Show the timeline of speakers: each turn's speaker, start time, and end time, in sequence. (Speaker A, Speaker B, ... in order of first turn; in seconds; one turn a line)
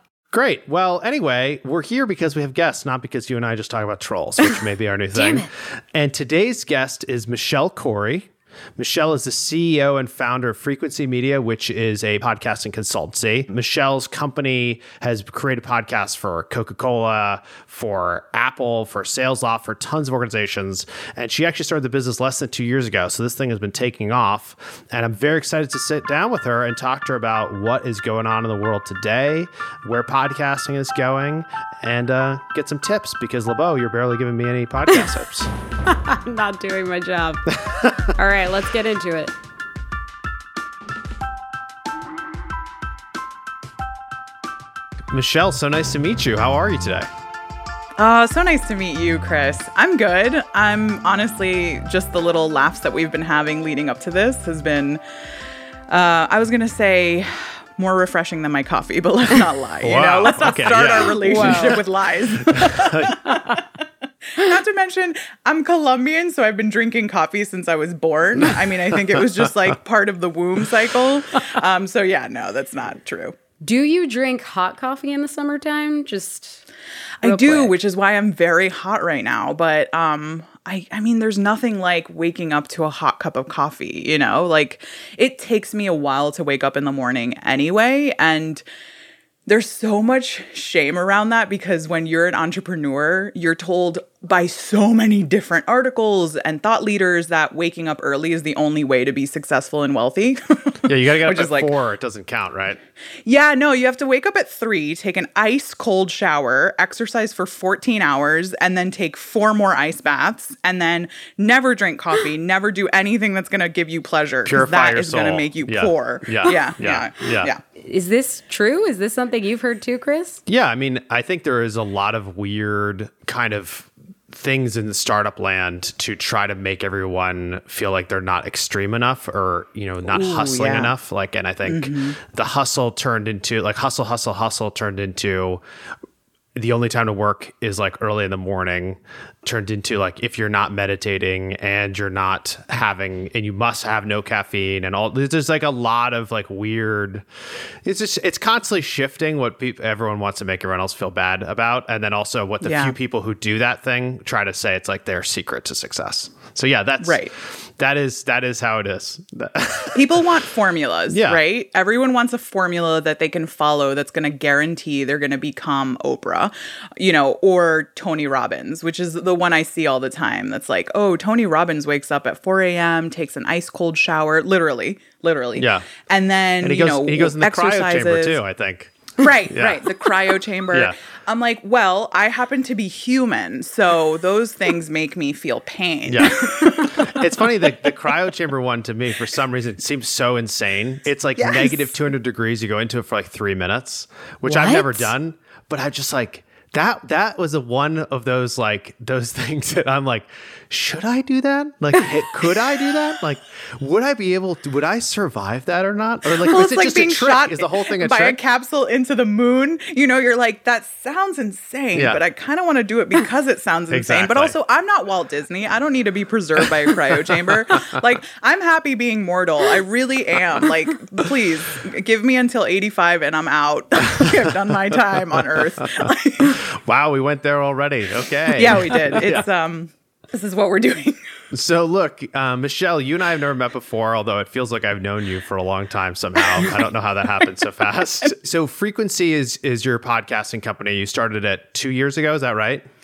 Speaker A: 0.3-35.5
Speaker B: 5.2-5.4
Speaker B: 35.9-39.3
Speaker A: 37.7-38.1
Speaker A: 45.1-47.1
Speaker C: 48.0-55.0
Speaker C: 55.9-63.7
Speaker A: 59.8-61.8
Speaker B: 61.2-61.8
Speaker A: 62.4-63.4
Speaker C: 64.3-73.4
Speaker B: 73.6-76.6
Speaker C: 77.2-88.6
Speaker B: 77.2-77.7
Speaker C: 89.5-101.7
Speaker A: 100.8-102.8
Speaker C: 103.2-117.6
Speaker A: 114.4-117.5
Speaker B: 117.8-120.4
Speaker A: 120.5-135.6
Speaker C: 130.1-130.9
Speaker C: 131.7-132.2
Speaker A: 136.6-147.2
Speaker A: 147.8-157.2
Speaker C: 152.6-152.9
Speaker C: 157.0-157.3
Speaker A: 157.8-160.0
Speaker C: 159.9-178.4
Speaker A: 161.1-161.4
Speaker A: 175.6-175.9
Speaker A: 176.6-179.9
Speaker C: 179.2-187.2
Speaker A: 186.1-208.4
Speaker C: 191.4-191.9
Speaker B: 194.4-195.1
Speaker C: 206.4-226.6
Speaker A: 211.9-212.2
Speaker A: 213.9-214.5
Speaker A: 226.0-229.4
Speaker C: 228.5-231.2
Speaker A: 231.5-242.8
Speaker C: 236.5-236.9